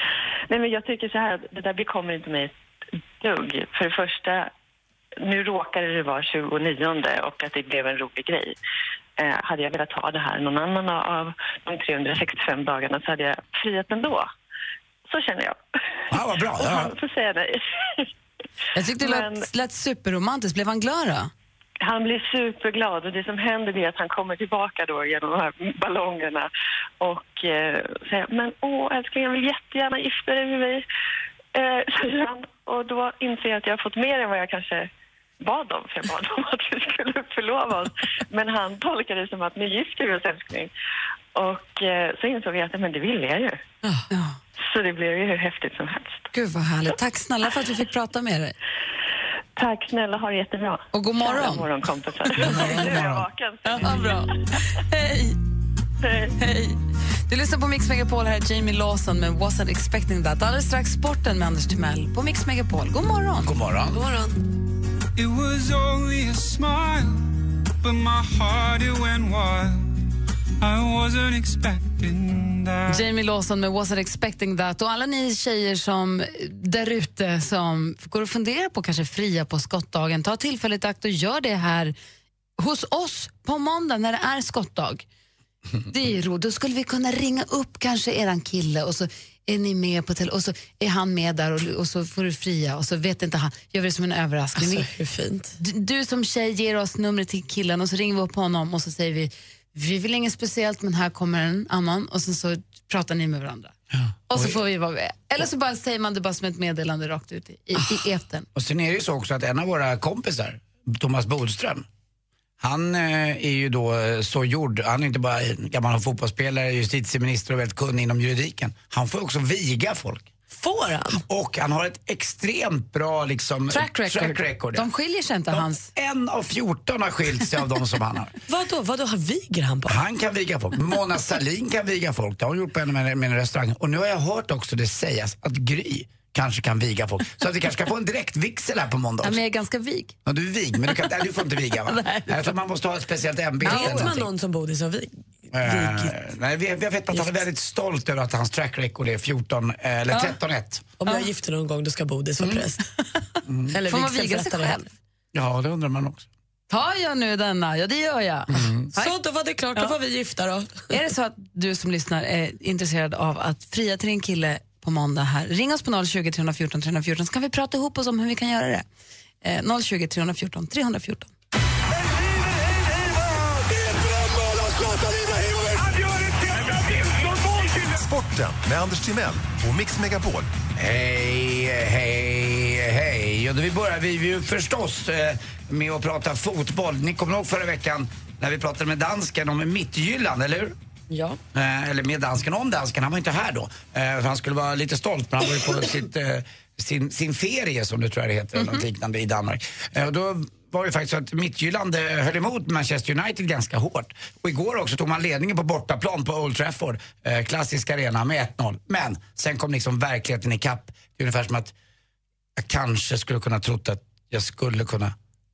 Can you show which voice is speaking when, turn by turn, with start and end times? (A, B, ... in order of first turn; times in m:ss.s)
0:00.5-0:02.5 A
0:03.2-0:04.5 A
0:05.2-0:08.6 A
0:09.2-0:14.3 A
0:15.1-0:15.6 A
0:16.1-0:16.9 B
0:16.6-0:18.1 A
0:18.7-0:21.3 C
0:19.0-0:19.5 A
0:21.8-0:26.5 A
0:27.0-0:30.8 A
0:31.5-0:34.9 A
0:35.4-0:40.7 A
0:41.3-0:43.6 A
0:44.1-0:44.4 C
0:44.6-0:46.3 A
0:46.3-0:48.5 C
0:49.6-0:54.5 A
0:50.9-0:51.7 C
0:52.2-0:53.0 C
0:52.4-0:53.2 B
0:53.6-0:55.4 C
0:56.0-0:56.3 A
0:56.4-1:03.6 C
1:03.4-1:04.0 B
1:03.9-1:04.4 D
1:05.2-1:09.9 E
1:10.6-1:13.1 E
1:12.9-1:21.9 C
1:22.6-1:25.0 C
1:25.9-1:34.9 C
1:34.6-1:35.5 D
1:35.6-1:43.7 C
1:43.9-1:44.5 B
1:44.3-1:48.4 C
1:48.5-1:51.8 B
1:52.6-2:00.3 B
2:00.5-2:01.2 D
2:01.1-2:04.9 B
2:03.7-2:05.9 C
2:05.5-2:08.3 B
2:08.5-2:10.0 D
2:09.8-2:19.4 B
2:19.2-2:20.1 C
2:20.2-2:24.2 B
2:21.9-2:22.5 C
2:23.6-2:26.1 D
2:23.7-2:24.1 C
2:25.5-2:30.9 B
2:30.1-2:30.4 C
2:31.0-2:32.9 D
2:33.5-2:33.7 B
2:33.7-2:34.8 D
2:33.8-2:34.9 C
2:35.3-2:36.3 B
2:36.7-2:39.2 C
2:38.5-2:38.9 B
2:39.0-2:40.9 D
2:40.9-2:48.8 C
2:49.4-2:51.3 C
2:53.2-2:57.9 E
2:57.9-3:00.5 F
3:00.8-3:10.7 B
3:11.1-3:11.4 D
3:11.5-3:31.7 B
3:32.6-3:35.1 B